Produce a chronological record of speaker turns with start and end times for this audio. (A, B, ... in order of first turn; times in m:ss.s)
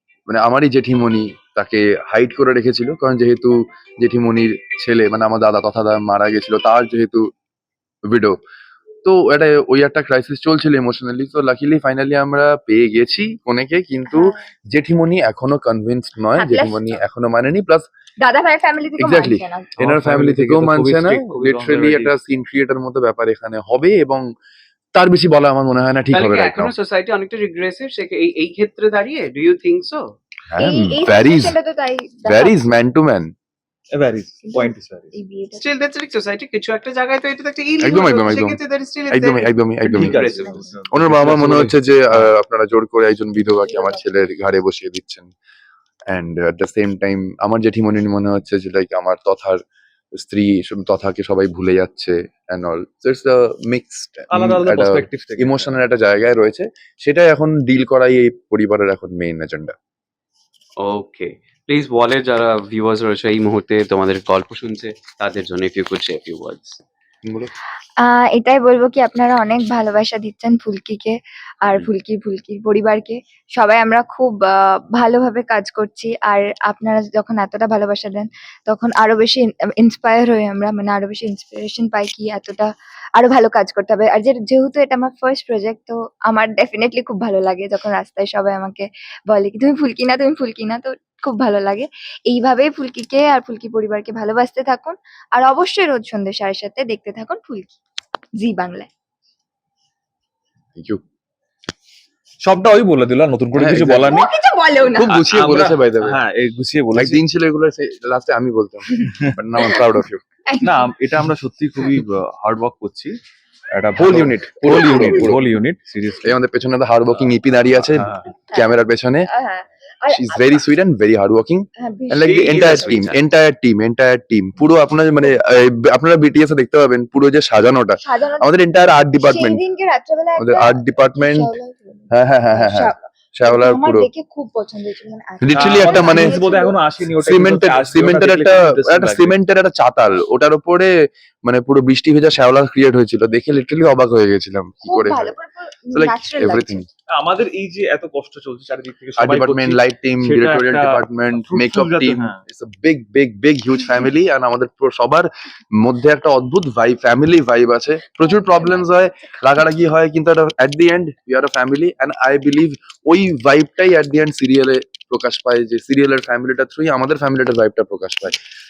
0:00.3-0:07.3 A
0:08.1-0:08.4 A
0:09.0-0:17.9 A
0:14.1-0:14.4 B
0:16.4-0:17.0 B
0:18.2-0:19.7 B
0:19.0-0:24.2 A
0:19.8-0:22.1 C
0:25.0-0:26.7 A
0:26.1-0:30.1 D
0:30.5-0:31.6 A
0:30.6-0:32.6 B
0:32.3-0:33.3 A
0:33.9-0:35.1 C
0:34.4-0:35.7 B
0:35.6-0:40.6 D
0:37.8-0:38.6 A
0:39.1-0:40.3 A
0:39.8-0:42.4 C
0:40.2-0:40.8 B
0:40.9-0:45.3 A
0:43.6-0:44.0 B
0:46.1-0:49.6 A
0:50.2-0:59.7 A
0:54.3-0:55.8 C
1:00.8-1:06.8 D
1:07.3-1:07.5 A
1:08.0-1:37.8 B
1:38.4-1:38.9 B
1:40.8-1:41.0 A
1:42.4-1:44.3 C
1:43.5-1:44.2 A
1:44.1-1:45.2 B
1:44.8-1:46.2 A
1:45.1-1:47.2 C
1:46.9-1:50.2 A
1:50.5-1:50.9 B
1:50.6-1:53.2 C
1:53.7-1:56.3 C
1:54.0-1:55.4 A
1:56.2-1:59.3 A
1:57.2-1:58.3 C
1:58.5-2:00.6 B
2:00.1-2:09.6 A
2:01.8-2:03.0 B
2:02.4-2:03.2 D
2:02.5-2:02.8 C
2:08.0-2:16.8 B
2:10.4-2:11.5 A
2:12.1-2:14.1 A
2:15.4-2:16.5 A
2:15.5-2:19.4 C
2:17.2-2:20.9 A
2:21.4-2:25.3 A
2:24.8-2:26.9 B
2:25.9-2:26.8 A
2:27.1-2:32.4 C
2:29.2-2:35.3 A
2:35.8-2:48.4 A
2:38.2-2:39.3 B